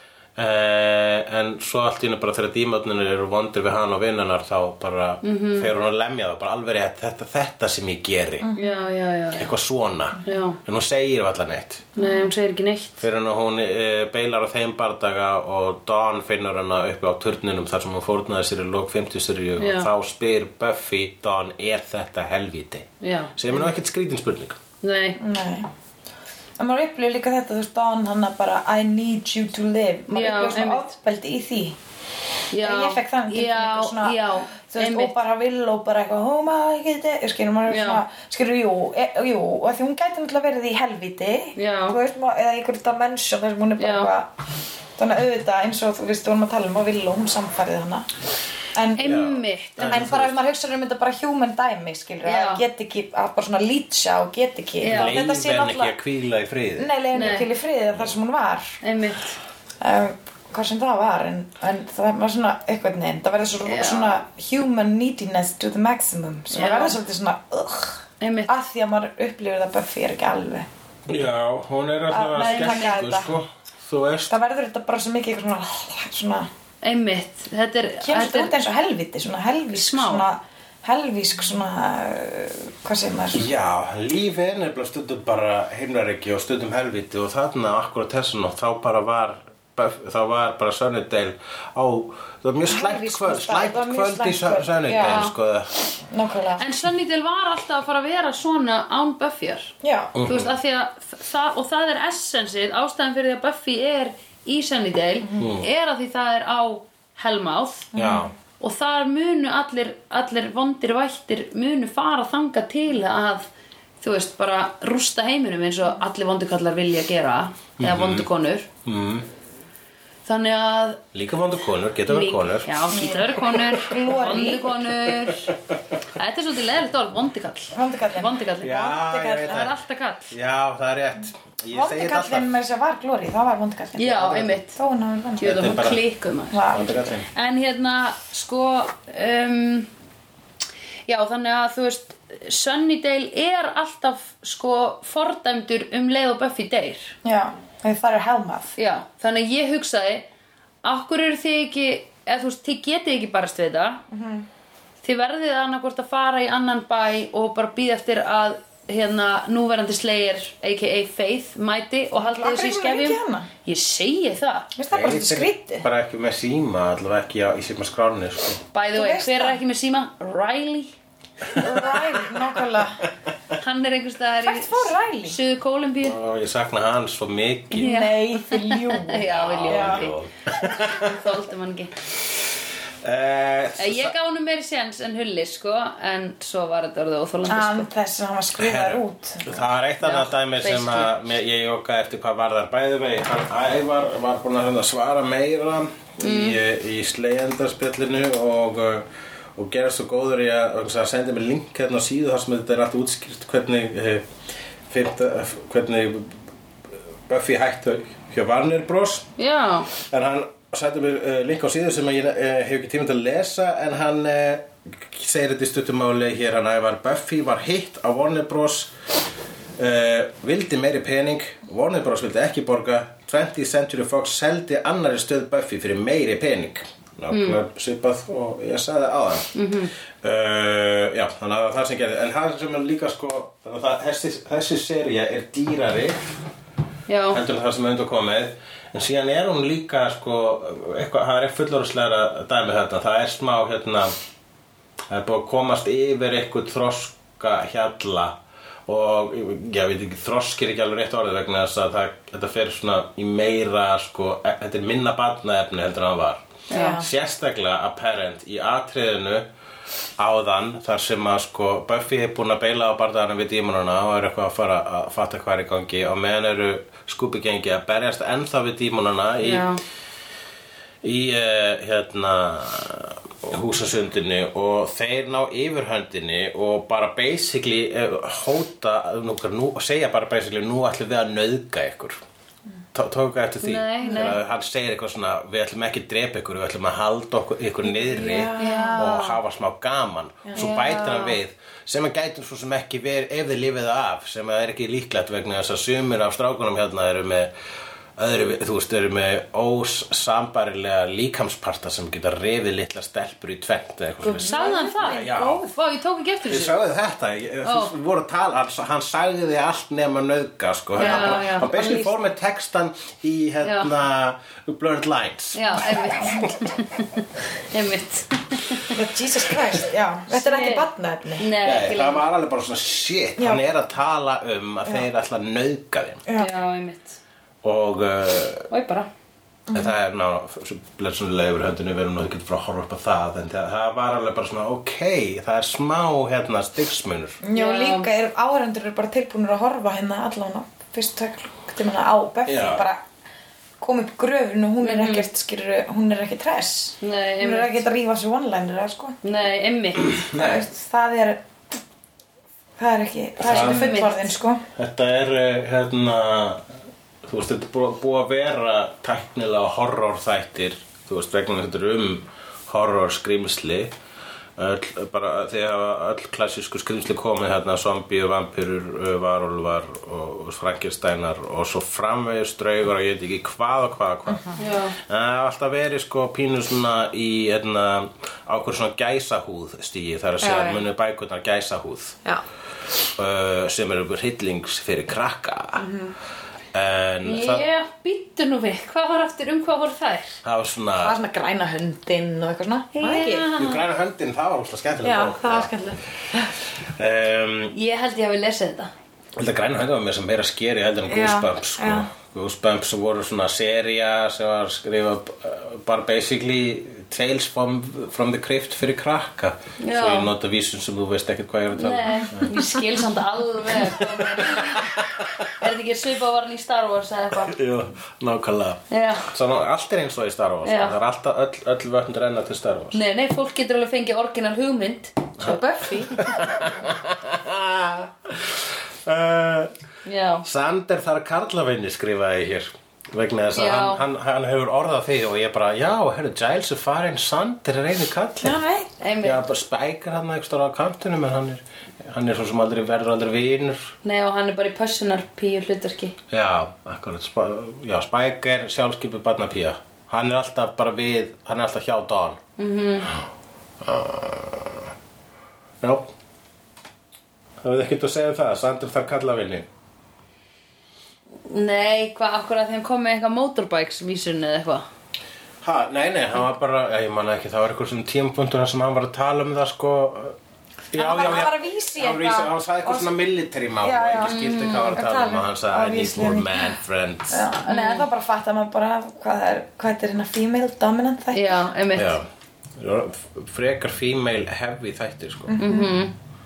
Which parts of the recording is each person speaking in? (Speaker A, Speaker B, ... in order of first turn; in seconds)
Speaker A: 0.4-8.5, 9.3-11.9, 13.0-24.6, 49.0-50.4, 54.9-56.9, 71.1-74.3, 83.3-95.8, 100.2-100.5, 105.4-105.7, 107.9-108.3, 117.8-118.3, 118.8-119.3, 121.1-122.9, 125.2-125.6, 128.6-129.8, 130.3-132.5, 135.4-136.0, 136.7-137.3, 164.9-168.6, 171.5-172.0, 176.0-177.9, 179.2-181.2, 183.0-184.1, 188.6-204.3, 204.9-206.4, 207.3-209.3, 210.0-218.9, 219.8-229.6, 230.2-236.3, 237.3-244.1, 245.1-259.5, 260.2-269.7, 271.0-282.2, 282.9-297.5, 298.2-305.7, 306.5-316.5, 321.6-326.2, 327.6-328.7, 329.7-337.4, 342.5-342.9, 350.0-350.7, 353.4-353.9, 354.8-356.7, 357.2-363.9, 364.6-382.2, 383.1-385.9, 386.7-387.7, 390.4-391.2, 393.6-395.7, 396.9-397.7, 399.4-412.6, 413.7-415.6, 417.4-423.0, 426.1-429.7, 430.4-438.6, 439.2-443.9, 446.3-452.4, 453.8-454.9, 455.8-456.1, 457.6-459.7, 465.6-470.4, 470.9-477.5, 481.9-485.6
Speaker B: 5.2-5.7, 8.6-9.5, 10.2-10.6, 12.0-13.0, 19.6-19.9, 23.0-23.3, 24.8-25.2, 30.1-30.9, 32.5-35.2, 37.7-38.0, 41.6-42.0, 43.8-44.1, 49.0-50.1, 52.2-52.6, 54.8-55.2, 57.1-57.5, 58.8-59.4, 63.6-64.2, 66.5-67.0, 68.2-68.5, 72.4-73.0, 76.8-78.6, 79.8-80.3, 95.1-95.3, 96.6-99.7, 100.3-107.9, 108.6-113.5, 114.0-118.7, 120.3-121.0, 122.1-125.6, 126.1-130.3, 134.0-134.8, 135.4-136.7, 137.3-139.9, 141.1-147.2, 148.8-150.3, 150.8-154.0, 155.0-164.7, 168.7-170.9, 173.6-176.2, 177.7-181.9, 183.8-187.9, 190.0-191.2, 196.2-196.6, 209.4-209.9, 227.3-227.6, 229.6-229.9, 237.1-237.4, 256.7-257.0, 269.4-269.8, 283.6-284.4, 288.6-289.4, 290.6-291.4, 304.2-306.8, 307.6-307.9, 311.0-311.7, 313.6-313.9, 315.6-319.0, 320.3-322.3, 326.4-327.2, 328.7-329.1, 337.5-338.1, 344.8-345.3, 347.0-347.9, 349.2-350.2, 353.4-354.3, 374.6-375.0, 387.2-390.4, 392.9-393.8, 397.7-398.9, 409.8-410.3, 411.7-417.6, 418.9-419.3, 420.6-420.9, 422.9-426.1, 430.1-430.4, 433.5-434.0, 439.0-439.4, 444.0-446.2, 452.6-453.1, 461.5-464.9, 474.2-475.0, 477.7-478.1, 481.3-482.2, 485.6-486.1
Speaker C: 8.4-8.9, 12.0-12.3, 25.2-25.7, 26.6-31.8, 32.6-44.3, 45.0-48.1, 48.7-49.1, 49.8-56.0, 56.8-58.8, 59.8-70.7, 72.1-73.3, 74.3-76.5, 78.0-83.5, 92.7-95.3, 96.1-96.7, 99.8-100.2, 107.9-108.3, 122.9-124.9, 127.7-129.7, 131.7-135.7, 136.5-137.1, 147.2-148.7, 154.1-154.5, 162.2-163.5, 164.8-165.9, 168.9-169.6, 171.5-173.0, 174.4-175.4, 177.8-180.1, 187.5-189.6, 256.7-257.1, 284.0-284.4, 287.8-289.2, 304.2-305.7, 311.0-312.2, 318.9-321.5, 323.4-323.7, 326.3-326.5, 329.7-329.9, 337.4-343.0, 343.8-349.2, 350.3-351.4, 352.8-354.6, 374.3-374.6, 380.4-380.8, 385.8-386.1, 391.0-393.5, 395.0-396.5, 401.1-402.1, 425.4-426.2, 438.4-438.9, 470.9-473.1, 473.8-476.7, 477.3-481.6, 485.5-485.9